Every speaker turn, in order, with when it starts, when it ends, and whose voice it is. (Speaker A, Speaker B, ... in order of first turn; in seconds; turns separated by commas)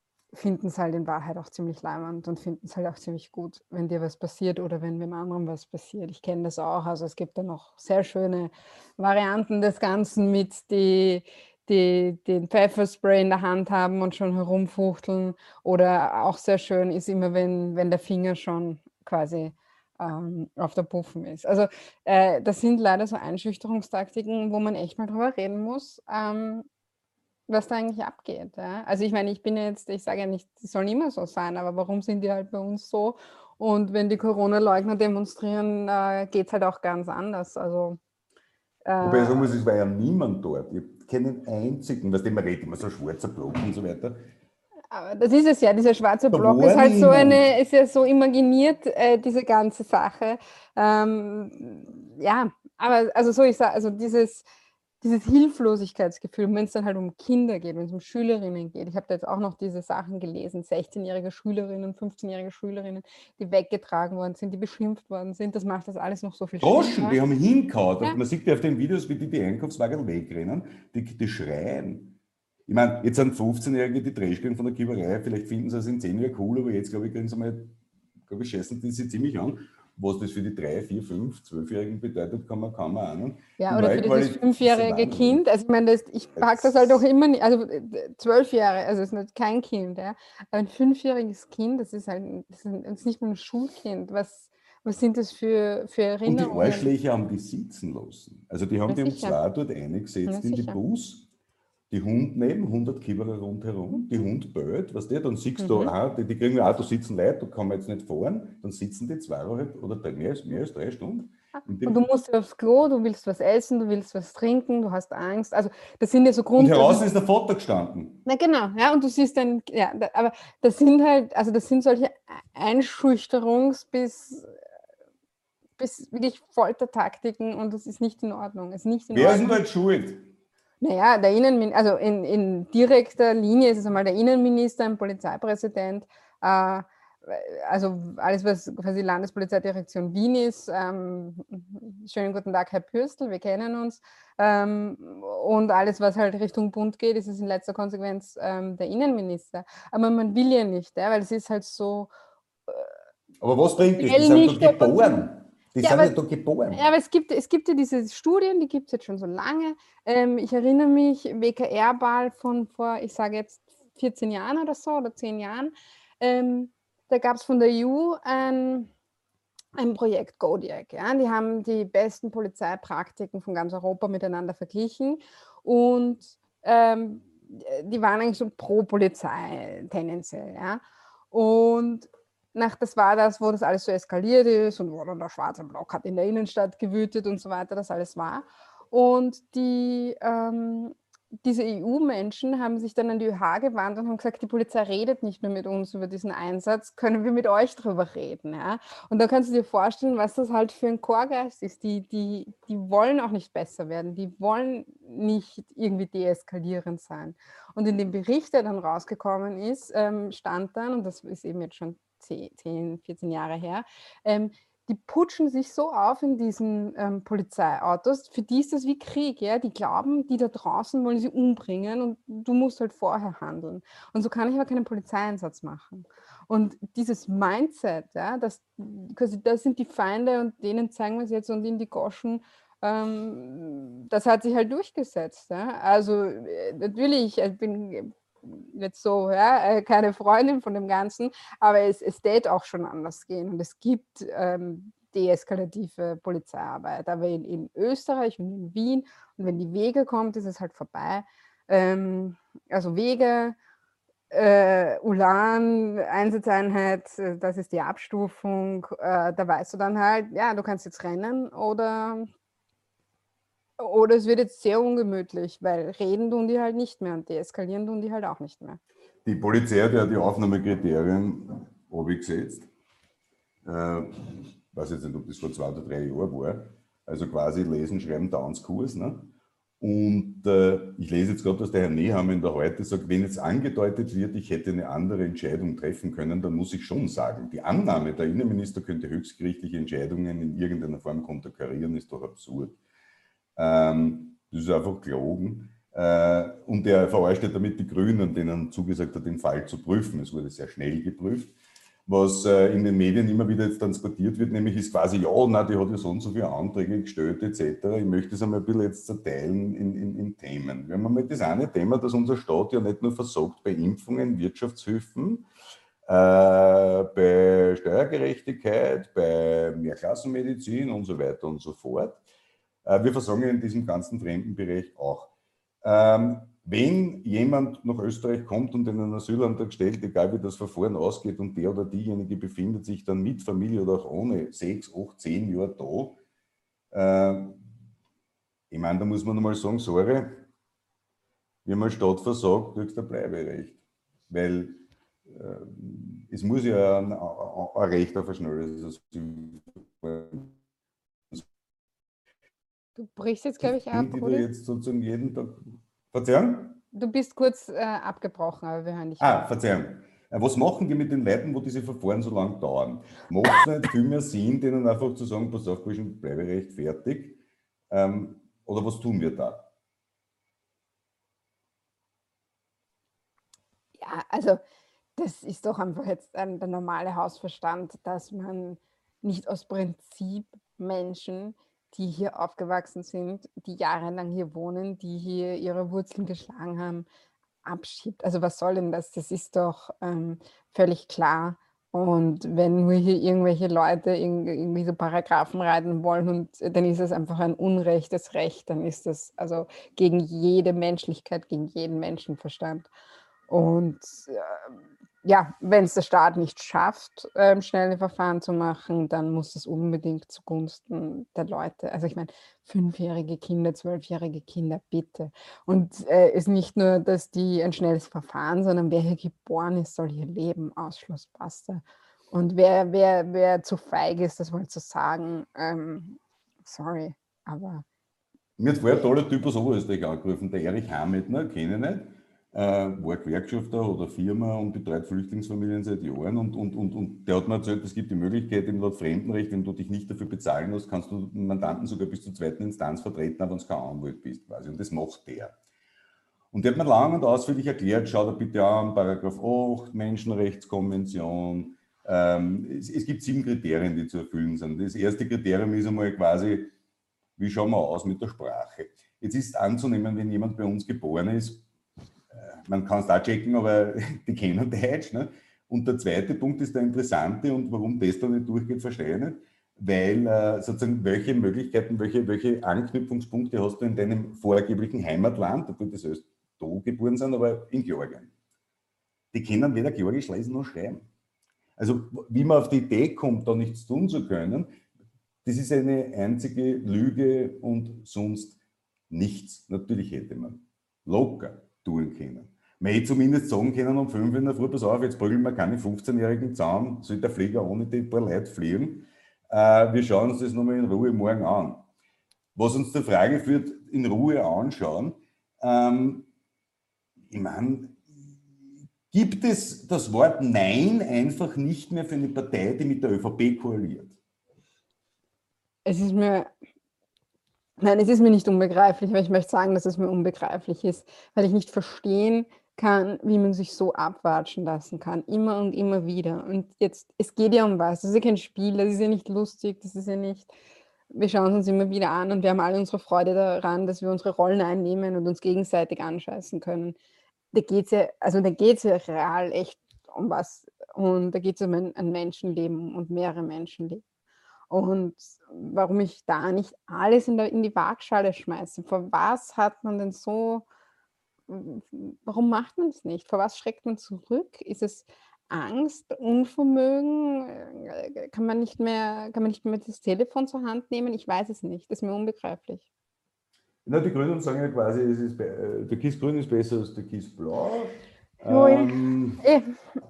Speaker A: 0.3-26.7, Speaker A: 27.5-38.0, Speaker A: 38.8-39.5, Speaker B: 39.0-44.2, Speaker A: 44.9-54.4, Speaker B: 46.3-47.4, Speaker A: 55.0-67.2, Speaker B: 66.6-77.8, Speaker B: 78.3-85.4, Speaker A: 83.6-96.9, Speaker B: 86.4-86.8, Speaker B: 96.2-101.2, Speaker A: 98.9-99.4, Speaker A: 100.3-100.8, Speaker B: 101.9-112.0, Speaker A: 105.6-105.9, Speaker A: 111.8-117.0, Speaker B: 116.5-118.2, Speaker A: 118.2-124.5, Speaker A: 125.8-129.6, Speaker B: 129.1-130.3, Speaker A: 130.8-152.1, Speaker A: 152.7-152.9, Speaker B: 153.4-156.8, Speaker A: 154.0-155.2, Speaker A: 155.8-156.1, Speaker A: 156.7-168.9, Speaker A: 169.8-253.6, Speaker A: 254.3-262.3, Speaker A: 263.8-268.8, Speaker B: 269.2-272.7, Speaker B: 273.6-292.8, Speaker B: 293.6-301.5, Speaker B: 302.1-315.4, Speaker B: 316.1-322.2, Speaker B: 322.8-325.3, Speaker B: 325.8-336.2, Speaker B: 336.9-337.6, Speaker B: 338.7-340.4, Speaker B: 341.6-343.8, Speaker B: 344.3-350.5, Speaker A: 353.0-354.5, Speaker B: 353.6-356.8, Speaker A: 356.9-359.5, Speaker B: 359.2-367.4, Speaker B: 367.9-369.7, Speaker A: 374.0-374.6, Speaker A: 375.2-387.1, Speaker A: 387.6-402.9, Speaker A: 403.5-404.7, Speaker A: 405.2-427.8, Speaker B: 428.6-445.5, Speaker B: 446.5-456.7, Speaker B: 457.4-461.6, Speaker B: 462.3-478.3, Speaker B: 479.3-481.0, Speaker B: 481.8-484.7, Speaker B: 485.4-488.6, Speaker B: 489.1-501.8, Speaker B: 502.5-506.3, Speaker B: 507.3-508.0, Speaker B: 509.1-514.1, Speaker A: 515.8-516.5, Speaker A: 517.8-530.5, Speaker A: 531.1-537.0, Speaker A: 537.5-544.0, Speaker A: 544.7-550.6, Speaker A: 551.5-562.9, Speaker B: 563.8-569.4, Speaker A: 568.5-569.8